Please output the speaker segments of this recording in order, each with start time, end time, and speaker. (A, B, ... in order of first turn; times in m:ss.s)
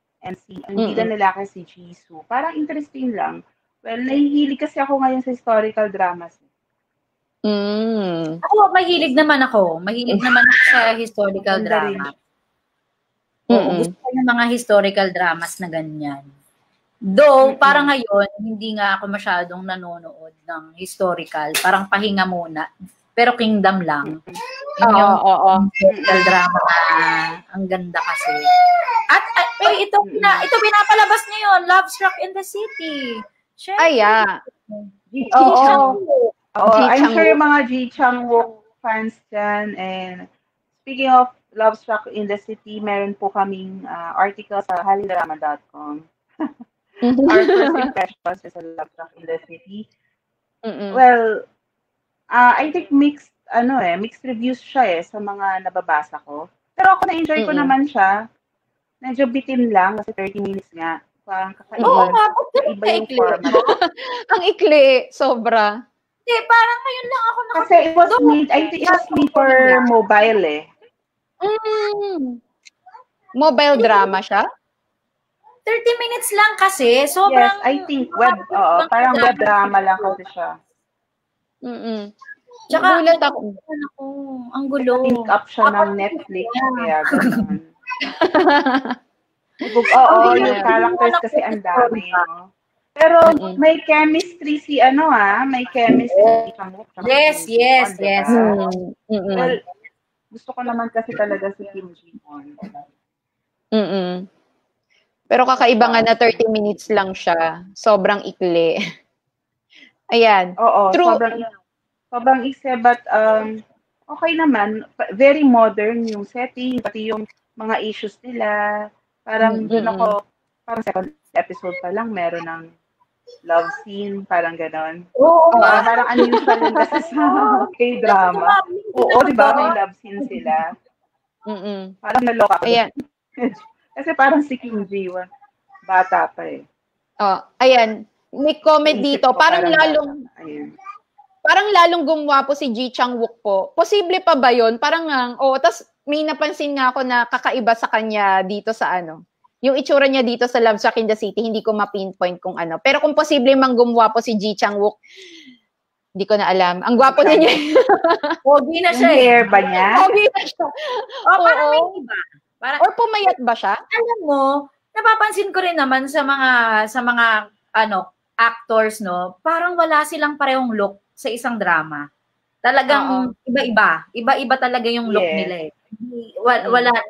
0:00.2-0:06.4 A
0:00.8-0:01.1 B
0:07.5-0:08.4 B
0:08.4-0:12.1 C
0:11.5-0:12.1 A
0:13.5-0:13.9 B
0:13.6-0:16.2 C
0:17.1-0:22.6 C
0:17.5-0:17.8 A
0:23.2-0:24.2 C
0:24.1-0:24.4 A
0:24.8-0:28.5 C
0:24.9-0:25.6 B
0:25.9-0:26.3 A
0:29.1-0:36.3 C
0:30.0-0:30.4 A
0:33.8-0:34.4 B
0:35.2-0:35.9 A
0:35.3-0:36.0 B
0:36.6-0:40.2 A
0:36.6-0:37.4 B
0:40.8-0:46.5 A
0:47.0-0:47.9 B
0:47.2-0:49.8 A
0:50.7-0:51.0 B
0:50.9-0:51.3 A
0:52.3-0:58.1 A
0:57.4-0:57.7 B
0:59.0-1:03.5 A
1:01.8-1:03.7 C
1:01.8-1:02.1 B
1:03.4-1:05.7 B
1:06.2-1:09.8 C
1:07.6-1:10.6 A
1:11.4-1:12.4 B
1:13.4-1:14.4 B
1:13.8-1:14.0 C
1:15.7-1:19.7 C
1:17.3-1:20.5 A
1:21.6-1:22.1 B
1:22.7-1:23.6 B
1:22.7-1:27.4 C
1:25.0-1:27.6 A
1:28.0-1:29.0 B
1:29.7-1:32.4 A
1:30.1-1:32.2 C
1:30.2-1:30.7 B
1:33.0-1:38.6 A
1:33.3-1:33.6 B
1:35.9-1:36.4 B
1:37.0-1:38.5 C
1:38.3-1:39.5 B
1:39.3-1:39.6 A
1:40.3-1:42.7 A
1:43.8-1:44.2 B
1:45.3-1:48.7 B
1:45.6-1:46.4 A
1:50.1-1:51.2 B
1:50.6-1:51.4 A
1:52.1-1:53.5 A
1:54.1-1:58.6 A
1:59.3-2:00.2 A
1:59.4-2:00.1 B
2:00.7-2:02.6 A
2:03.5-2:05.0 A
2:05.2-2:06.3 C
2:05.5-2:05.8 B
2:05.6-2:10.6 A
2:07.2-2:09.7 C
2:11.5-2:11.9 B
2:12.0-2:12.8 A
2:13.4-2:15.2 A
2:15.9-2:16.6 A
2:17.2-2:20.1 B
2:18.9-2:20.7 A
2:21.4-2:35.0 B
2:36.2-2:38.4 B
2:37.1-2:37.5 A
2:38.4-2:39.5 C
2:38.9-2:40.0 A
2:40.0-2:41.9 B
2:41.3-2:42.8 C
2:42.8-2:43.8 B
2:43.9-2:52.0 C
2:52.6-2:57.0 C
2:52.9-2:53.3 B
2:55.1-2:55.5 A
2:56.6-2:56.9 B